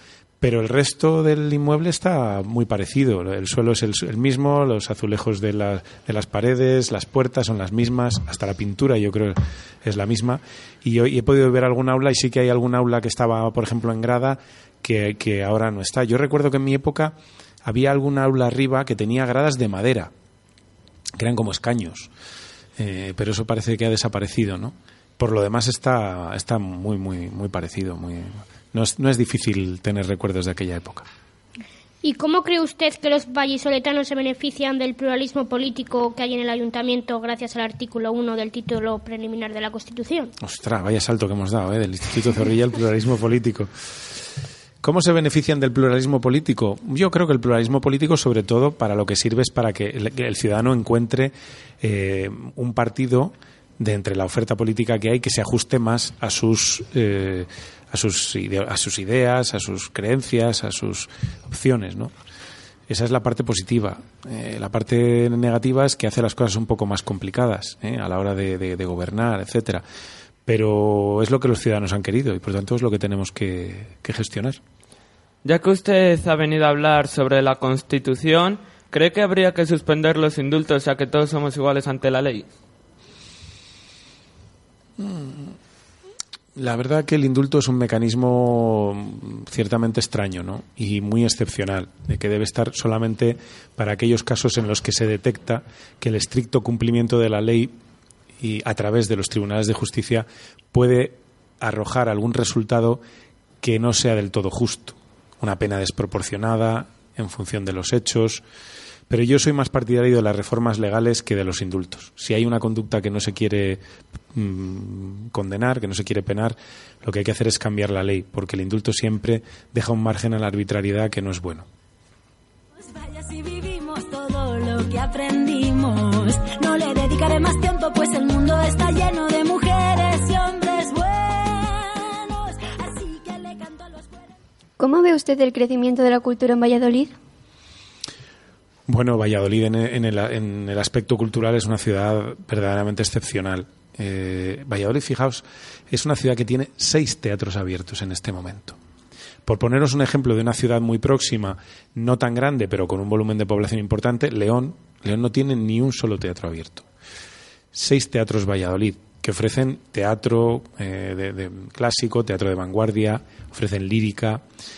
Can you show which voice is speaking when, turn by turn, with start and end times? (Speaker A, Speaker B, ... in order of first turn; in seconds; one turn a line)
Speaker A: 0.4-20.1
Speaker A: 21.2-22.1
Speaker A: 22.8-31.1
Speaker B: 32.0-40.3
Speaker A: 40.4-43.7
Speaker A: 44.8-62.1
Speaker A: 62.9-69.8
Speaker A: 70.5-74.6
Speaker C: 75.4-82.5
Speaker A: 85.0-85.5
Speaker A: 86.6-97.7
Speaker A: 98.4-103.0
Speaker A: 103.6-108.4
Speaker A: 109.1-113.8
Speaker A: 114.3-121.7
Speaker D: 123.0-134.2
Speaker E: 134.8-137.1
Speaker A: 138.9-148.8
Speaker A: 149.5-156.9
Speaker A: 157.7-164.4